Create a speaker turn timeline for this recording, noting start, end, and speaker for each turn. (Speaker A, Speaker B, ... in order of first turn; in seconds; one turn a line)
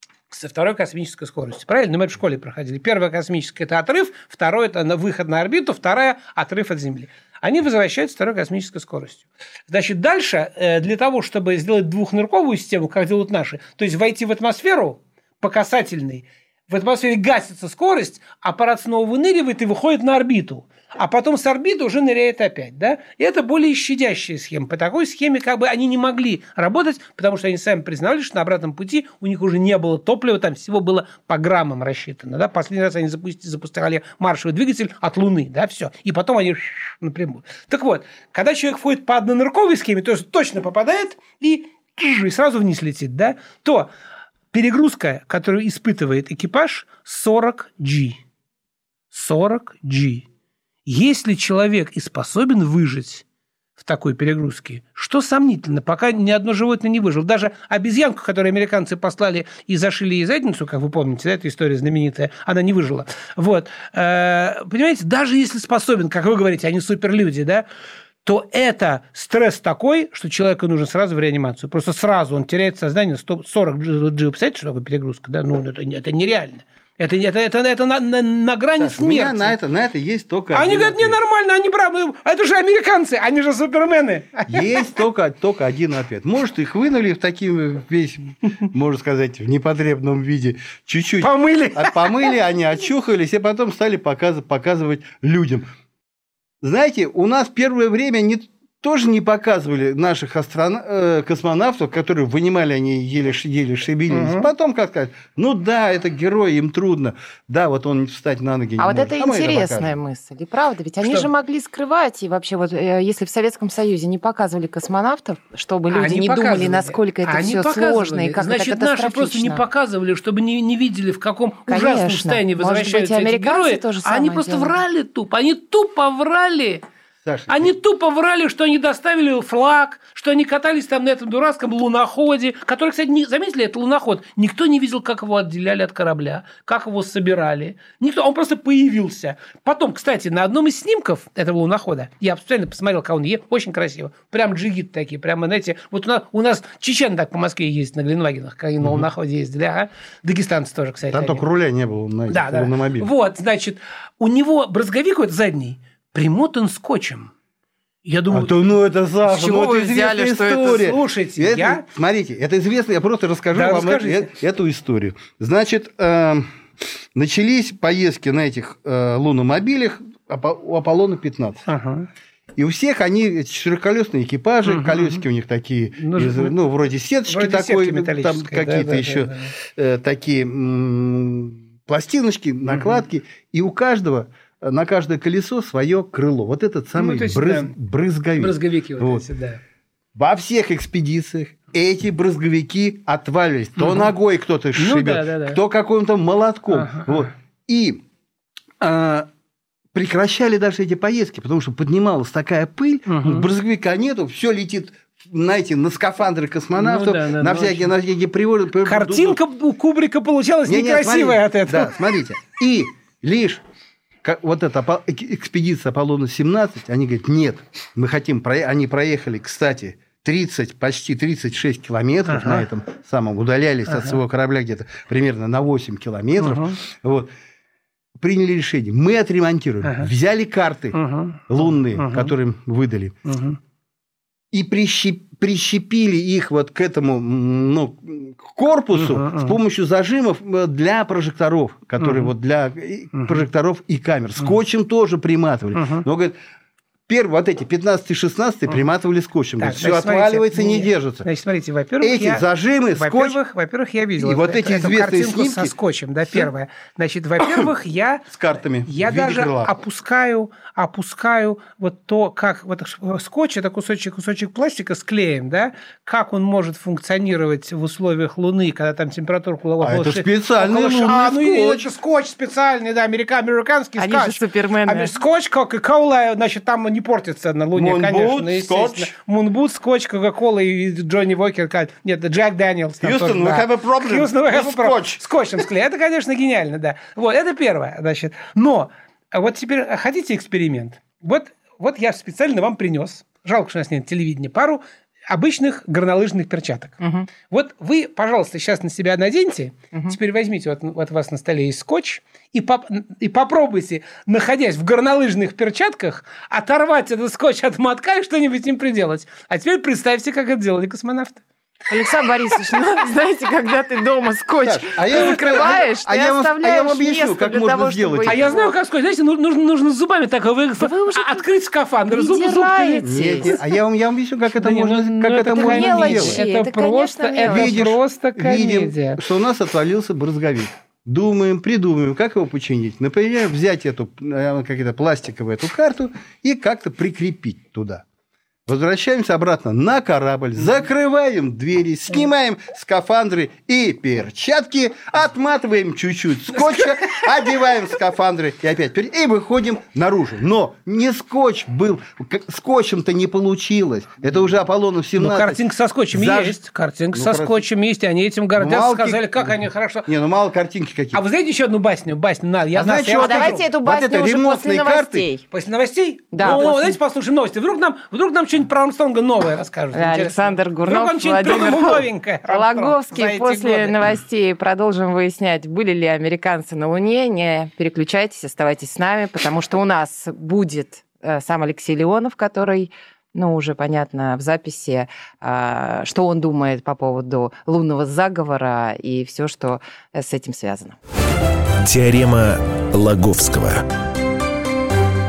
Speaker A: 0.3-43.9
Speaker A: 44.5-48.2
Speaker A: 49.1-50.2
Speaker A: 50.9-53.2
Speaker A: 53.8-67.7
Speaker A: 68.2-79.6
Speaker B: 78.8-81.2
Speaker A: 80.5-84.9
Speaker B: 84.5-95.7
Speaker A: 91.2-92.3
Speaker B: 96.6-110.0
Speaker A: 104.1-104.5
Speaker C: 108.8-119.6
Speaker A: 115.9-126.8
Speaker C: 121.7-124.8
Speaker B: 127.2-127.7
Speaker A: 127.5-151.4
Speaker B: 148.8-149.1
Speaker B: 151.1-153.1
Speaker A: 152.3-157.3
Speaker A: 158.1-158.7
Speaker B: 158.3-166.5
Speaker C: 159.3-160.8
Speaker A: 160.7-161.8
Speaker A: 163.5-164.3
Speaker B: 167.2-171.7
Speaker A: 171.7-172.1
Speaker B: 172.6-189.2
Speaker A: 174.7-175.2
Speaker A: 176.0-176.5
Speaker A: 177.3-179.5
Speaker A: 182.7-183.0
Speaker A: 186.9-187.7
Speaker A: 188.4-189.6
Speaker B: 190.2-198.0
Speaker A: 193.8-194.1
Speaker A: 194.8-195.6
Speaker A: 196.7-197.3
Speaker B: 198.8-199.3
Speaker B: 199.9-209.4
Speaker A: 203.1-203.5
Speaker A: 206.8-207.9
Speaker A: 208.8-212.0
Speaker B: 210.7-213.6
Speaker B: 214.2-227.3
Speaker A: 222.3-222.7
Speaker A: 223.9-224.2
Speaker A: 226.4-226.8
Speaker B: 228.2-233.2
Speaker A: 229.8-230.1
Speaker A: 230.9-232.3
Speaker A: 233.3-233.6
Speaker B: 234.5-246.3
Speaker A: 238.9-239.6
Speaker A: 242.0-242.3
Speaker A: 243.1-243.4
Speaker A: 245.7-246.1
Speaker B: 247.1-251.3
Speaker A: 249.6-252.4
Speaker B: 252.0-253.4
Speaker A: 253.0-258.3
Speaker B: 254.2-255.7
Speaker B: 257.4-257.7
Speaker B: 258.3-259.7
Speaker A: 258.9-311.4
Speaker B: 269.8-271.9
Speaker C: 274.0-275.1
Speaker B: 277.8-279.1
Speaker B: 283.0-285.2
Speaker C: 297.0-297.3
Speaker C: 311.9-318.7
Speaker B: 314.6-318.5
Speaker A: 315.1-315.8
Speaker A: 318.2-323.6
Speaker C: 320.8-321.4
Speaker C: 322.1-323.6
Speaker B: 323.1-326.4
Speaker A: 324.6-329.2
Speaker C: 325.5-327.8
Speaker B: 327.4-338.0
Speaker B: 338.7-356.6
Speaker A: 346.5-347.2
Speaker A: 355.2-360.1
Speaker B: 357.1-357.6
Speaker B: 358.6-361.2
Speaker A: 361.1-363.6
Speaker B: 362.8-365.3
Speaker C: 363.2-365.4
Speaker A: 365.5-374.0
Speaker C: 366.3-367.0
Speaker B: 366.4-366.7
Speaker C: 369.9-391.0
Speaker D: 391.8-393.8